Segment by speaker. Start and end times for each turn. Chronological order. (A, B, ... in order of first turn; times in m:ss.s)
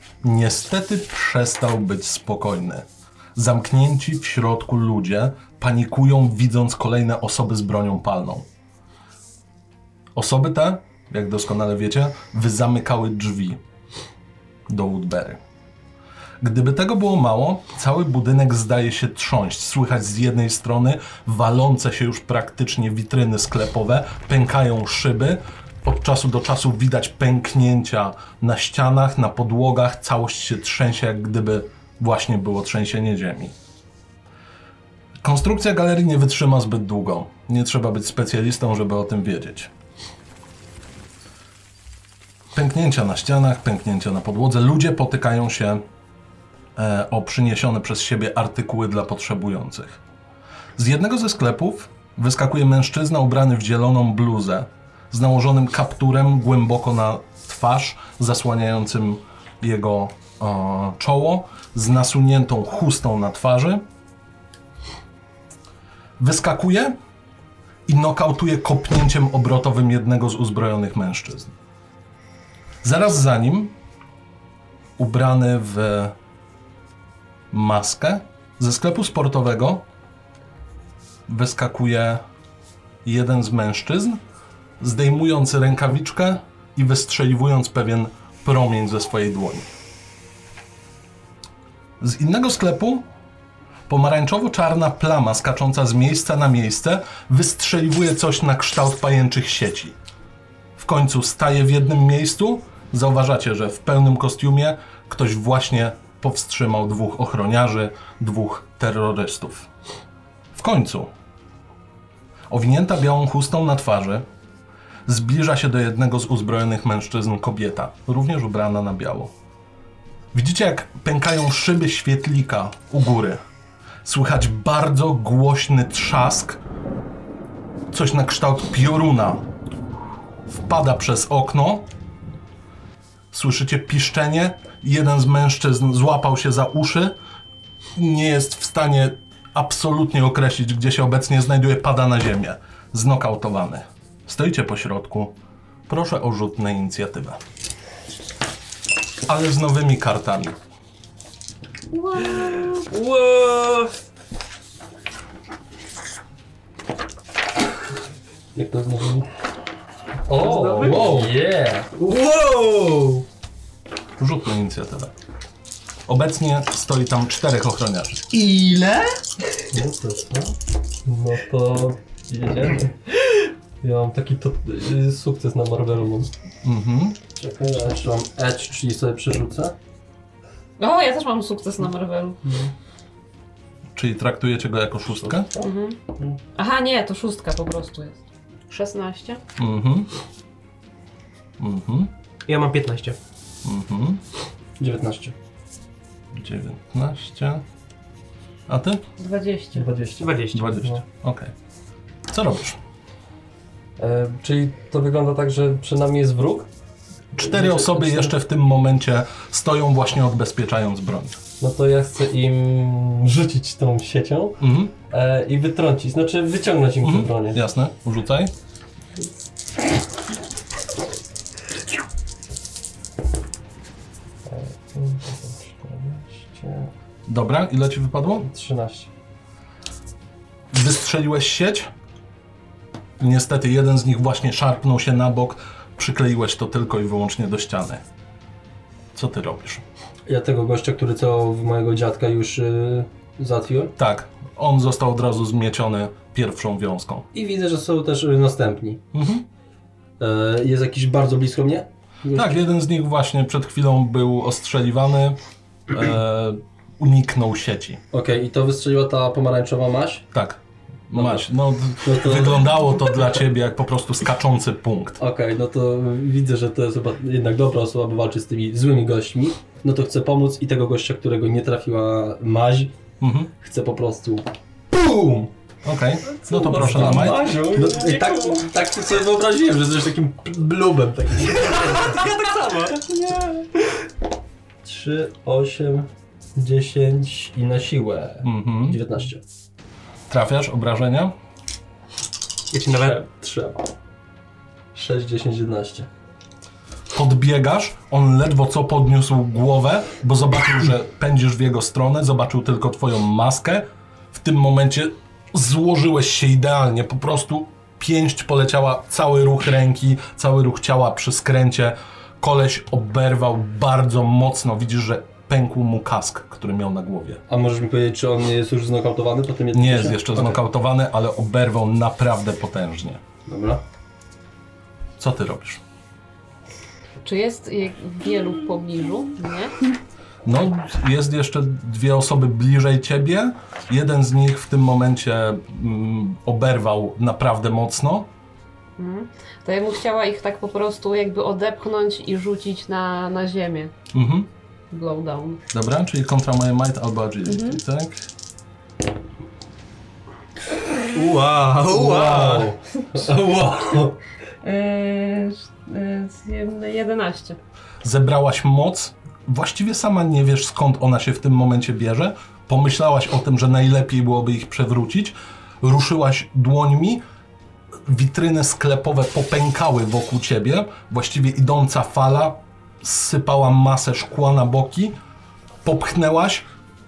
0:00.2-0:08.5 A
0:10.2-0:13.6 A
0:14.7-0:15.4 A
0:16.4-0:33.6 A
0:35.2-0:39.7 A
0:42.5-0:45.8 A
0:46.8-0:50.0 A
0:50.8-1:03.8 A
1:06.2-1:07.0 A
1:07.9-1:11.6 A
1:12.8-1:13.7 A
1:15.0-1:16.1 A
1:17.5-1:19.8 A
1:21.3-1:22.2 A
1:23.0-1:24.2 A
1:24.8-1:29.7 A
1:32.0-1:33.0 A
1:33.9-1:40.0 A
1:40.8-1:49.7 A
1:50.5-1:51.1 A
1:52.5-1:54.3 A
1:55.1-1:59.3 A
2:00.3-2:03.4 A
2:04.0-2:06.6 A
2:07.9-2:09.4 A
2:10.5-2:11.9 A
2:13.3-2:17.2 A
2:18.0-2:25.4 A
2:25.9-2:27.4 A
2:29.3-2:30.6 A
2:31.9-2:32.8 B
2:33.1-2:33.9 C
2:38.6-2:39.3 D
2:40.3-2:41.9 E
2:40.5-2:41.4 D
2:40.7-2:41.1 C
2:42.0-2:43.2 C
2:44.2-2:45.1 A
2:46.1-2:48.4 A
2:49.7-2:50.5 D
2:51.1-2:56.3 E
2:56.6-2:57.2 A
2:57.5-2:59.8 D
3:00.8-3:02.5 B
3:04.0-3:05.5 A
3:05.6-3:06.0 B
3:06.6-3:09.4 B
3:09.6-3:10.1 A
3:11.6-3:12.1 A
3:12.5-3:13.2 C
3:13.6-3:14.2 A
3:14.8-3:15.4 D
3:16.3-3:17.6 A
3:18.7-3:19.0 A
3:19.2-3:19.9 B
3:19.8-3:21.0 E
3:20.2-3:21.0 C
3:20.5-3:21.5 A
3:22.3-3:22.8 A
3:24.0-3:26.7 E
3:27.3-3:31.4 A
3:27.4-3:28.3 E
3:31.6-3:37.6 E
3:34.6-3:34.9 A
3:37.0-3:38.5 A
3:44.5-3:46.9 E
3:47.3-3:48.5 A
3:48.4-3:49.1 E
3:50.7-3:51.9 A
3:53.2-3:58.0 A
3:59.2-3:59.8 A
4:00.3-4:03.9 D
4:04.0-4:07.3 A
4:07.3-4:09.0 D
4:09.1-4:09.5 A
4:10.2-4:12.6 D
4:12.3-4:18.0 A
4:18.1-4:20.3 D
4:20.3-4:25.2 A
4:21.2-4:21.4 D
4:22.0-4:22.6 D
4:25.2-4:32.9 D
4:33.2-4:33.5 A
4:33.6-4:35.5 D
4:35.8-4:37.6 A
4:36.2-4:38.7 E
4:36.8-4:42.2 D
4:41.6-4:43.0 C
4:43.1-4:43.5 D
4:44.8-4:49.4 D
4:48.4-4:49.0 A
4:50.3-4:51.3 A
4:52.7-4:53.2 C
4:52.9-4:53.9 D
4:54.9-4:56.1 D
4:57.1-5:17.4 A
5:17.5-5:20.6 D
5:19.7-5:23.2 A
5:23.5-5:23.8 D
5:25.2-5:25.8 A
5:27.2-5:29.8 B
5:30.4-5:38.3 A
5:39.0-5:43.9 B
5:44.1-5:44.5 A
5:44.9-5:45.6 B
5:45.7-5:48.3 A
5:47.4-5:47.8 B
5:51.1-5:52.7 C
5:51.9-5:54.2 D
5:53.3-5:53.8 E
5:54.6-5:57.6 B
5:58.0-6:07.2 A
6:08.1-6:15.2 A
6:15.8-6:16.6 A